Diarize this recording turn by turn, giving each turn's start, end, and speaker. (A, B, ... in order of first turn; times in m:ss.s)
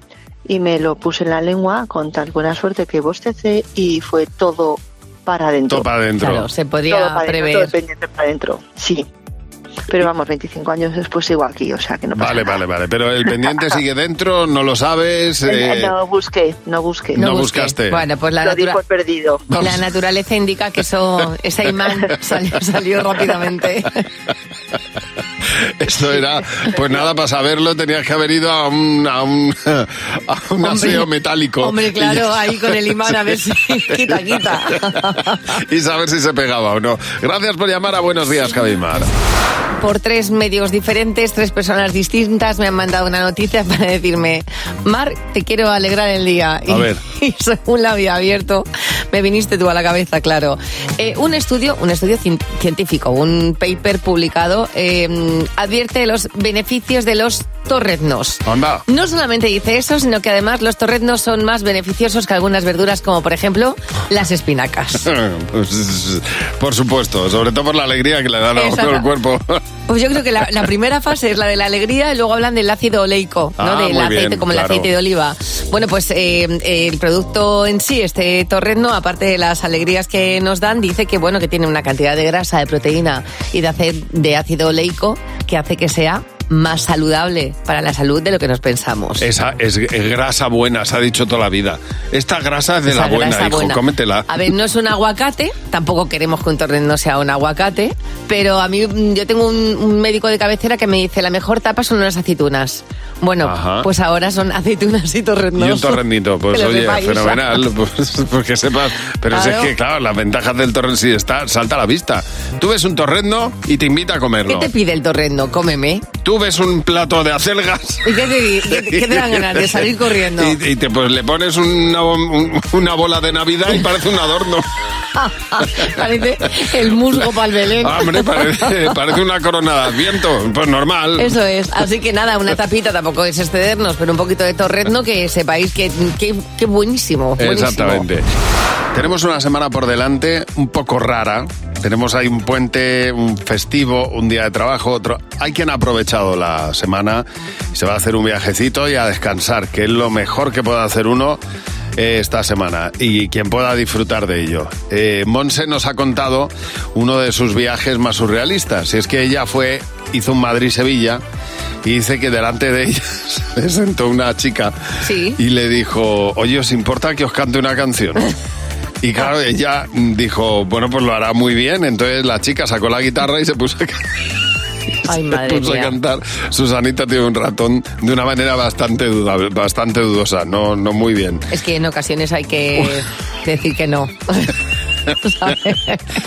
0:00.4-0:05.9 A
0:05.7-0:06.4 B
0:06.2-0:07.7 C
0:06.9-0:09.1 A
0:09.9-0:12.6 A
0:12.1-0:15.9 B
0:15.4-0:17.2 A
0:17.1-0:18.0 B
0:17.1-0:18.8 C
0:18.4-0:19.4 A
0:19.5-0:19.8 B
0:19.6-0:24.0 C
0:25.8-0:33.1 B
0:30.6-0:31.1 C
0:31.6-0:35.5 C
0:35.6-0:39.1 B
0:39.8-1:05.0 C
0:46.7-0:47.0 B
0:58.4-0:58.8 B
1:05.0-1:09.6 B
1:08.5-1:09.0 C
1:09.9-1:29.2 C
1:13.6-1:14.9 B
1:29.2-1:34.3 B
1:32.9-1:46.0 C
1:43.4-1:43.9 B
1:45.6-1:54.7 B
1:46.5-1:47.6 C
1:49.3-1:49.7 C
1:54.5-1:56.0 C
1:56.2-2:04.7 B
1:58.0-2:00.6 C
2:05.2-2:08.6 C
2:07.8-2:11.3 B
2:11.2-2:18.0 C
2:17.4-2:18.2 B
2:18.9-2:31.4 B
2:32.0-2:41.2 B
2:41.8-2:44.7 B
2:45.0-2:45.4 C
2:45.4-2:48.3 B
2:49.0-2:54.0 B
2:55.0-2:55.9 C
2:55.1-3:01.4 B
3:01.5-3:04.5 C
3:05.2-3:06.0 C